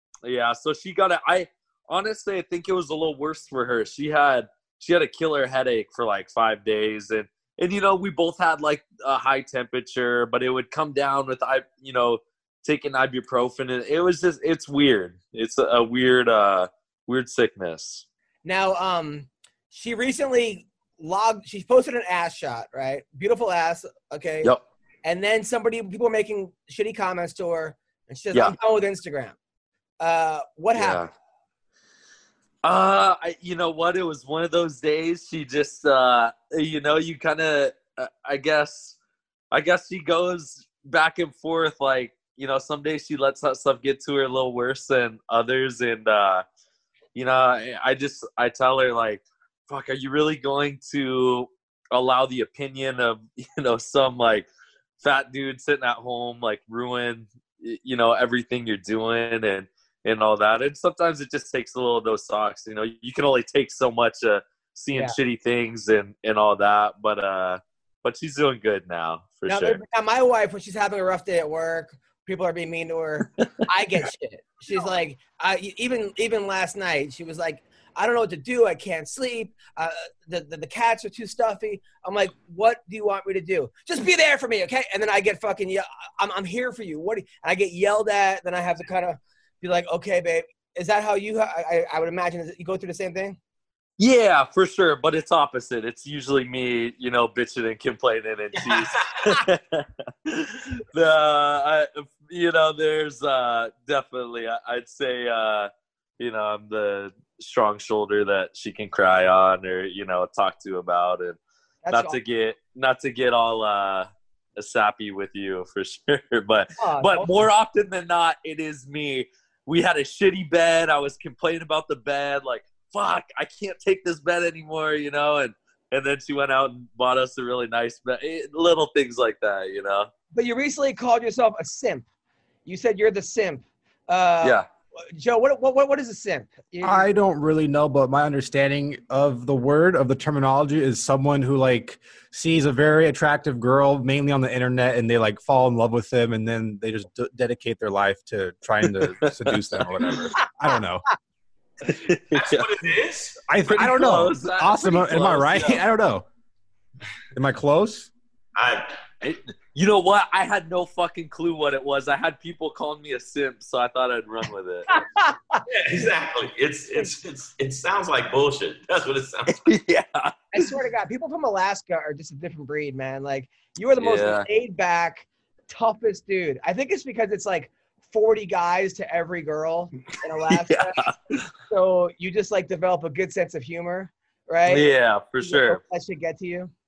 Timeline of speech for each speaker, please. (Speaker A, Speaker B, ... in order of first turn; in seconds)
Speaker A: 0.2-18.0, 30.7-31.1, 32.6-38.9, 39.5-46.4, 47.1-54.5, 55.0-69.8, 94.0-111.4, 111.9-130.1, 148.9-149.8, 151.8-152.7, 153.7-155.8, 159.2-165.0, 169.5-170.6, 174.0-174.4, 180.5-181.1, 184.7-185.8
Speaker B: 18.4-24.5, 25.0-29.4, 30.0-31.0, 69.5-93.4, 111.8-112.2, 116.8-117.3, 130.3-132.1, 132.7-134.6, 135.1-137.1, 164.9-165.6, 170.5-181.0, 181.7-184.9, 185.4-186.7
Speaker C: 136.8-151.1, 153.5-156.2, 157.3-158.1
Speaker D: 152.3-153.4, 158.6-159.0, 165.7-169.7